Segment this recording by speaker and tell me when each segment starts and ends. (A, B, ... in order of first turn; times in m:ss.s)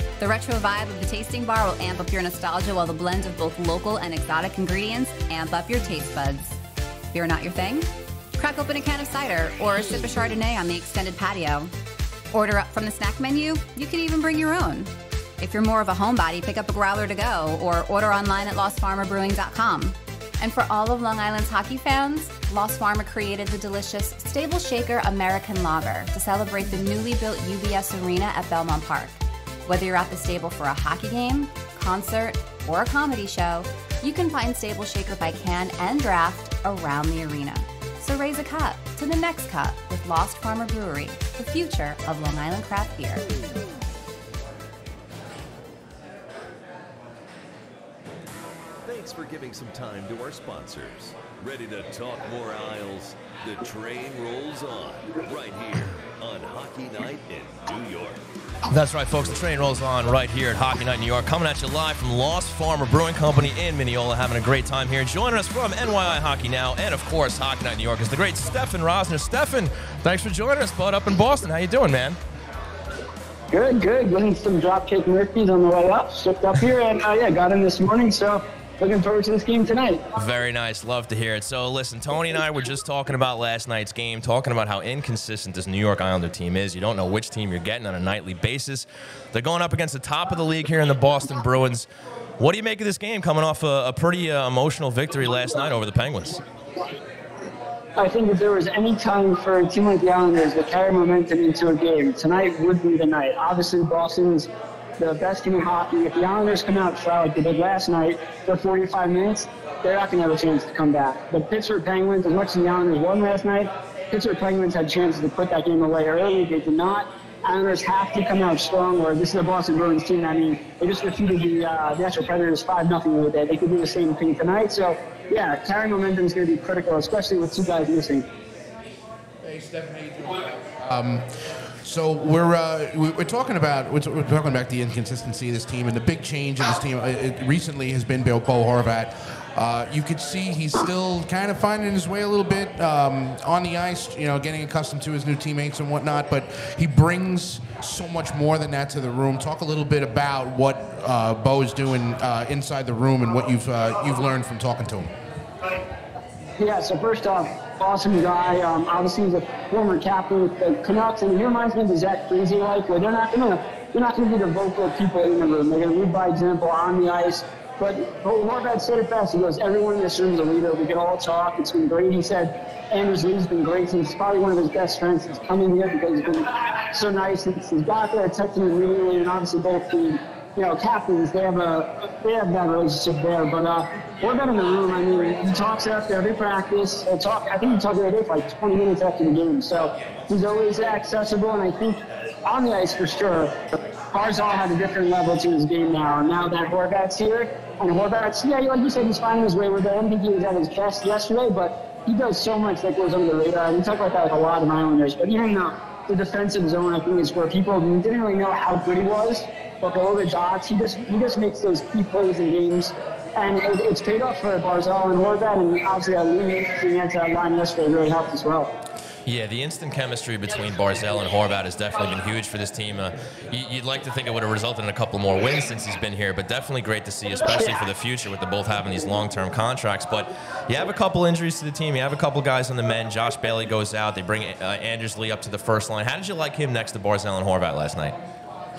0:00.2-0:06.6 A
0:07.1-0:11.7 A
0:12.3-0:43.2 A
0:48.9-0:58.2 B
0:58.7-1:12.2 C
1:13.5-1:20.0 D
1:20.2-1:31.9 C
1:32.4-1:36.4 C
1:38.0-2:08.3 D
2:09.4-2:35.1 E
2:36.6-3:38.7 D
3:39.2-3:58.2 C